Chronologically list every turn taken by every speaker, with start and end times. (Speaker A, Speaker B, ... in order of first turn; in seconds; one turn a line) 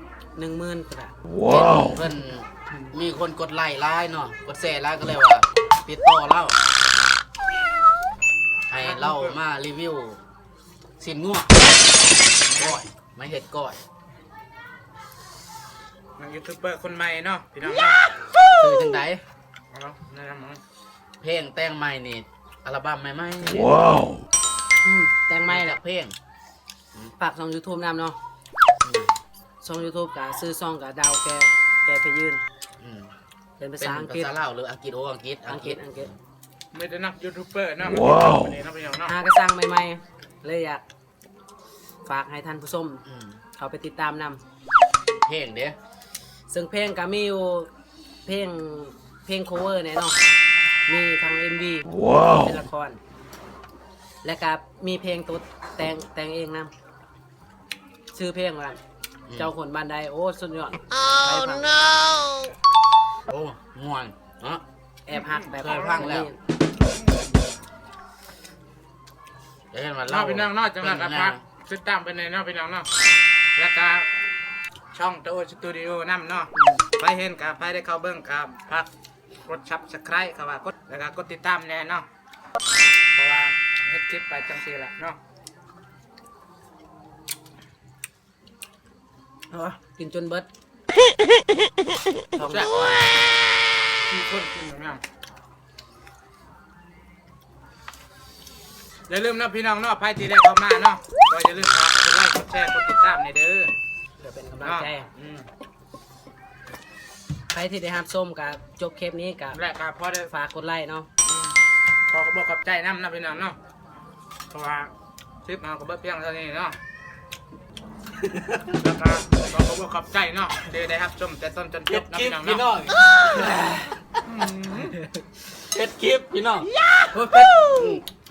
Speaker A: 0.3-1.1
Speaker B: 1.4-6.6
Speaker B: 8.7-10.2
Speaker C: 8.8-9.4
Speaker B: 11.0-11.8
Speaker B: 12.5-13.8
Speaker C: 12.5-12.8
Speaker C: 16.2-18.0
Speaker B: 18.6-19.2
Speaker C: 19.7-20.6
Speaker B: 21.2-24.1
Speaker A: 24.8-25.8
Speaker B: 25.5-26.2
Speaker A: 27.2-28.2
Speaker B: 28.8-29.2
Speaker A: 29.6-32.4
Speaker B: 32.8-33.1
Speaker A: 33.6-34.3
Speaker B: 33.8-35.8
Speaker A: 35.5-36.1
Speaker C: 36.7-39.1
Speaker A: 39.1-40.8
Speaker A: 42.0-43.0
Speaker B: 43.1-43.4
Speaker A: 43.6-44.4
Speaker B: 45.2-45.8
Speaker A: 46.5-47.7
Speaker A: 48.3-50.2
Speaker A: 50.9-53.0
Speaker A: 54.2-56.7
Speaker A: 58.1-58.8
Speaker A: 59.3-62.0
Speaker B: 63.3-64.6
Speaker A: 65.1-66.4
Speaker C: 65.1-66.1
Speaker B: 65.5-66.3
Speaker C: 66.9-67.3
Speaker B: 69.7-71.4
Speaker C: 70.0-72.9
Speaker C: 73.6-74.1
Speaker C: 74.9-78.9
Speaker C: 79.5-82.1
Speaker C: 83.1-85.2
Speaker A: 89.5-90.5
Speaker C: 92.3-93.0
Speaker A: 92.3-93.0
Speaker C: 94.1-95.0
Speaker C: 99.1-103.7
Speaker A: 104.2-105.1
Speaker C: 104.6-105.5
Speaker A: 107.5-109.6
Speaker C: 109.5-110.3
Speaker A: 110.3-111.1
Speaker C: 111.2-111.5
Speaker C: 112.1-113.6
Speaker C: 114.5-114.9
Speaker C: 115.5-116.8
Speaker C: 118.7-122.7
Speaker B: 121.9-124.2
Speaker C: 124.3-125.0
Speaker B: 125.5-128.0
Speaker C: 127.2-128.0